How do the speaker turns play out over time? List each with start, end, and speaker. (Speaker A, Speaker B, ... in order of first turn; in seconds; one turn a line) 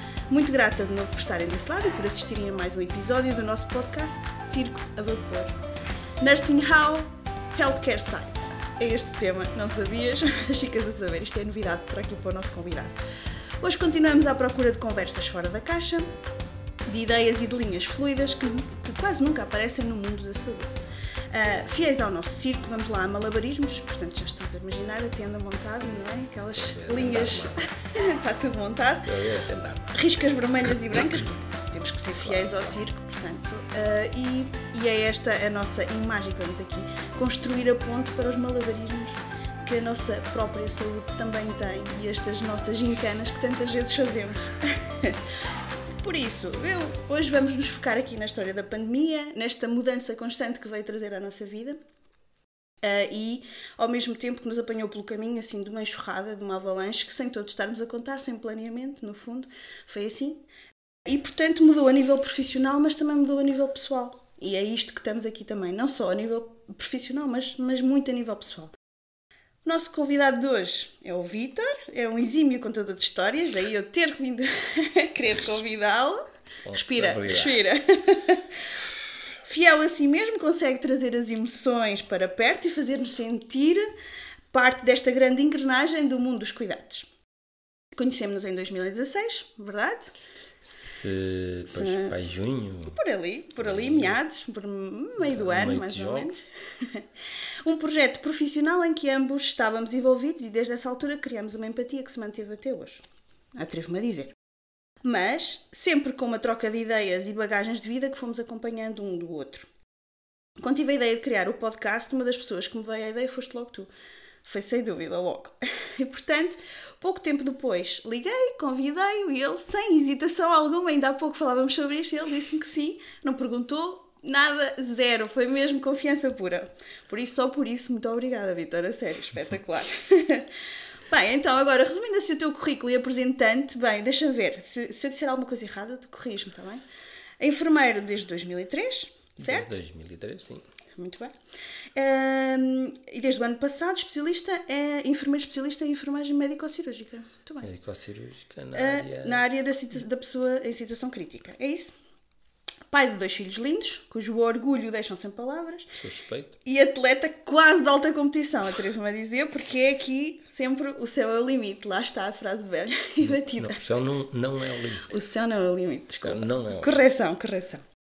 Speaker A: 0.3-5.5
Speaker A: 6.2-12.9
Speaker A: 13.6-16.1
Speaker A: 16.9-29.1
Speaker B: 26.5-27.7
Speaker B: 29.0-30.0
Speaker A: 29.9-45.2
Speaker A: 46.0-51.8
Speaker A: 52.8-60.4
Speaker A: 61.0-68.7
Speaker A: 69.6-78.5
Speaker B: 76.6-77.6
Speaker A: 79.4-83.9
Speaker A: 84.5-87.1
Speaker A: 87.9-90.1
Speaker B: 90.6-93.0
Speaker A: 91.7-92.3
Speaker A: 92.9-97.0
Speaker B: 93.6-94.2
Speaker B: 95.2-96.3
Speaker A: 97.6-103.0
Speaker A: 103.6-104.3
Speaker A: 105.0-109.7
Speaker A: 110.6-113.9
Speaker A: 114.4-130.5
Speaker A: 131.1-136.8
Speaker A: 137.4-139.8
Speaker B: 139.4-140.6
Speaker A: 140.9-141.3
Speaker A: 141.9-147.7
Speaker B: 147.6-149.4
Speaker A: 148.7-151.9
Speaker A: 152.9-155.9
Speaker B: 155.9-156.6
Speaker A: 156.6-163.8
Speaker B: 163.2-165.1
Speaker A: 165.0-167.8
Speaker B: 166.1-167.0